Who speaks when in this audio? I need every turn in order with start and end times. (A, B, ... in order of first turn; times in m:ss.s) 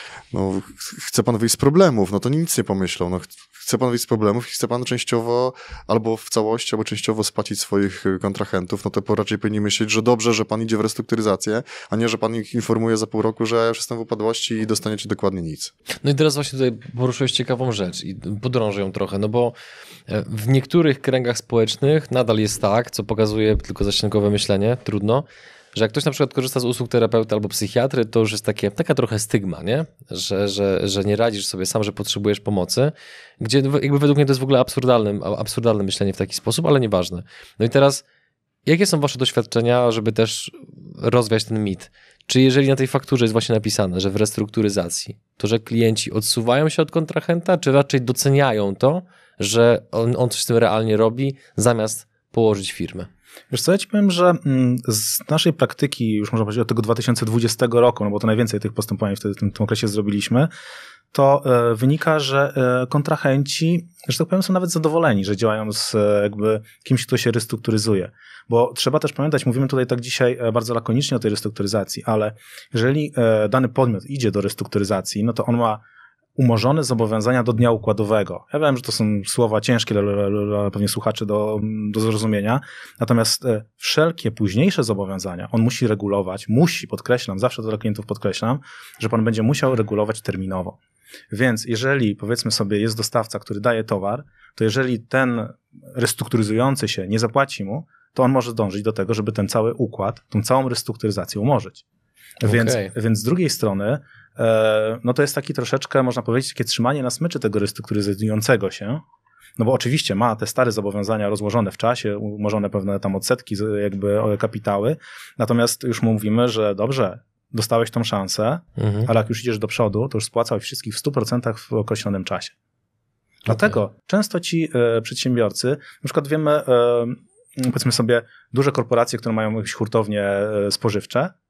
0:00.3-0:15.7 A
0:16.0-0:19.5 B
0:20.1-0:38.0 B
0:38.6-0:53.1 B
0:53.5-1:00.5 C
1:01.1-1:15.8 C
1:16.4-1:30.8 C
1:31.3-1:41.8 C
1:42.4-1:49.0 C
1:42.4-1:42.9 B
1:49.6-2:02.5 C
1:58.8-1:59.1 B
2:03.4-2:11.3 C
2:03.5-2:03.8 B